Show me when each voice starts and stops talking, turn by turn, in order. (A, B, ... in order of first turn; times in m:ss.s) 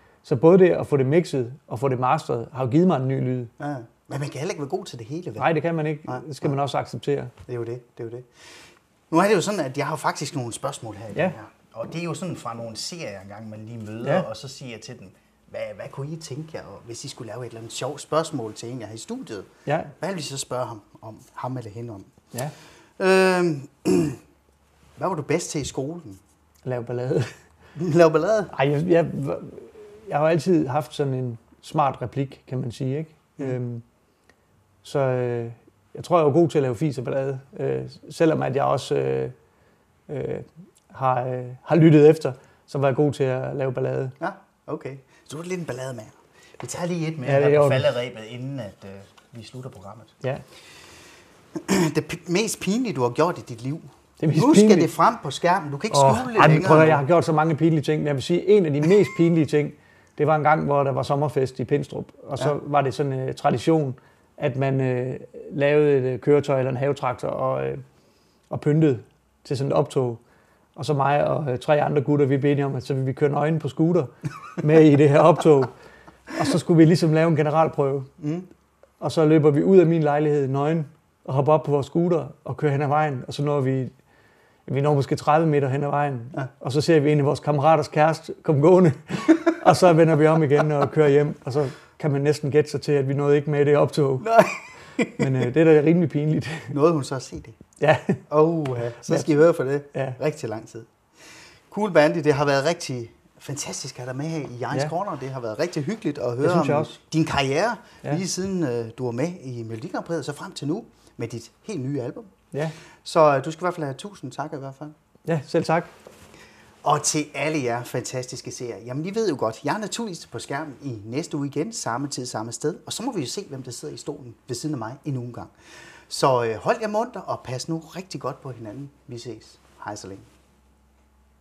0:00.2-0:03.5 A
0:03.6-0:05.5 B
0:05.4-0:07.3 A
0:06.1-0:06.6 B
0:07.5-0:22.1 B
0:19.7-0:19.9 A
0:23.0-0:24.2 B
0:25.0-0:26.2 B
0:26.6-0:27.4 A
0:27.8-0:28.5 B
0:28.5-0:33.8 A
0:34.8-0:39.3 A
0:40.1-0:44.2 A
0:44.2-0:50.2 B
0:47.2-0:47.9 A
0:51.5-0:57.0 B
0:54.2-0:54.9 A
0:55.9-1:07.8 A
1:08.5-1:10.2 A
1:10.8-1:15.7 A
1:16.3-1:18.1 A
1:18.2-1:18.5 B
1:19.0-1:23.9 A
1:24.7-1:34.3 A
1:34.2-1:35.5 B
1:35.2-1:36.8 A
1:36.7-1:37.6 B
1:37.8-1:38.2 A
1:38.3-1:52.3 B
1:39.9-1:40.2 A
1:46.4-1:46.9 A
1:53.0-1:55.0 B
1:55.3-1:55.9 A
1:56.8-2:10.3 B